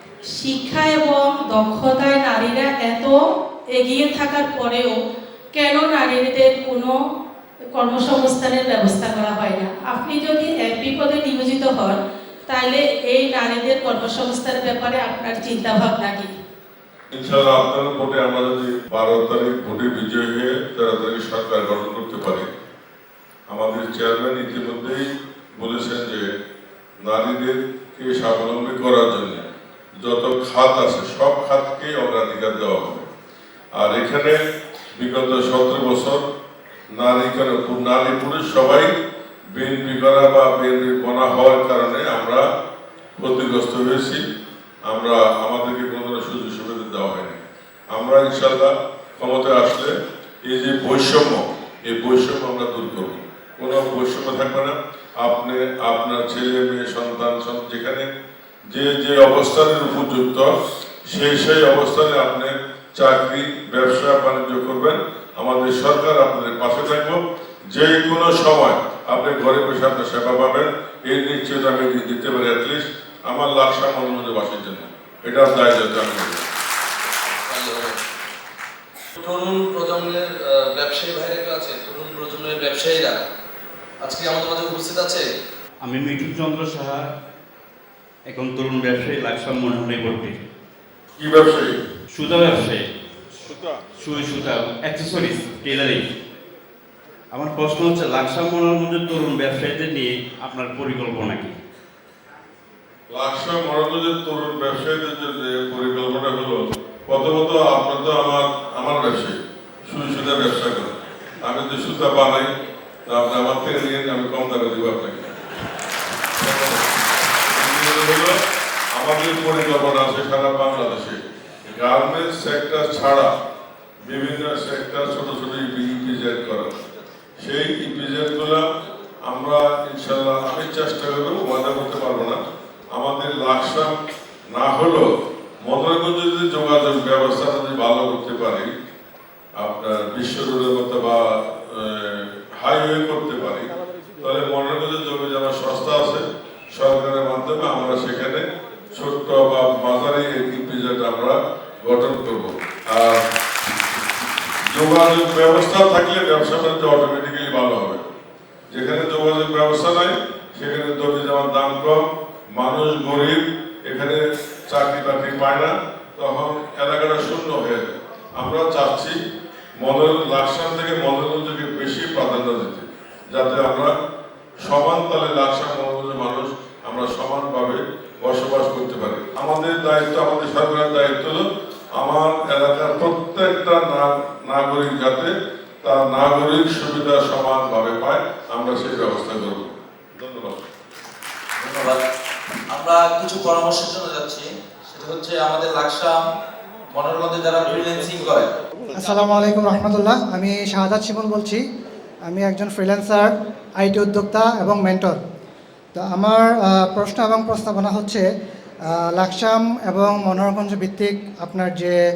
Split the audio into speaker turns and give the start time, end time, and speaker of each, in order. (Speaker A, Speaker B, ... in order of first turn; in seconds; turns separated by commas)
Speaker A: 0.3-3.1, Speaker A: 3.8-4.9, Speaker A: 5.5-6.9, Speaker A: 7.8-12.0, Speaker A: 12.5-16.3, Speaker B: 17.1-22.5, Speaker B: 23.5-26.3, Speaker B: 27.0-29.4, Speaker B: 30.0-33.1, Speaker B: 33.8-34.4, Speaker B: 35.0-36.2, Speaker B: 37.0-38.9, Speaker B: 39.5-42.4, Speaker B: 43.2-44.2, Speaker B: 44.9-47.4, Speaker B: 47.9-49.9, Speaker B: 50.4-58.0, Speaker B: 58.7-60.5, Speaker B: 61.1-67.2, Speaker B: 67.7-76.4, Speaker C: 77.4-78.0, Speaker C: 79.2-83.2, Speaker C: 84.0-85.2, Speaker D: 85.8-87.0, Speaker D: 88.3-90.3, Speaker B: 91.2-91.8, Speaker D: 92.1-92.8, Speaker B: 93.5-93.8, Speaker D: 94.0-96.0, Speaker D: 97.3-101.6, Speaker B: 103.1-110.9, Speaker B: 111.4-112.5, Speaker B: 113.1-115.3, Speaker B: 116.4-116.9, Speaker B: 117.5-118.3, Speaker B: 118.9-123.3, Speaker B: 124.1-126.8, Speaker B: 127.4-128.6, Speaker B: 129.2-132.4, Speaker B: 132.9-133.9, Speaker B: 134.5-135.1, Speaker B: 135.6-138.7, Speaker B: 139.6-143.7, Speaker B: 144.2-153.2, Speaker B: 154.7-158.1, Speaker B: 158.7-169.2, Speaker B: 169.8-173.9, Speaker B: 174.6-181.4, Speaker B: 181.9-185.3, Speaker B: 185.8-190.7, Speaker C: 191.6-192.0, Speaker C: 192.7-196.2, Speaker C: 196.9-198.5, Speaker E: 198.9-201.6, Speaker E: 202.3-205.2, Speaker E: 205.9-208.2, Speaker E: 208.9-212.0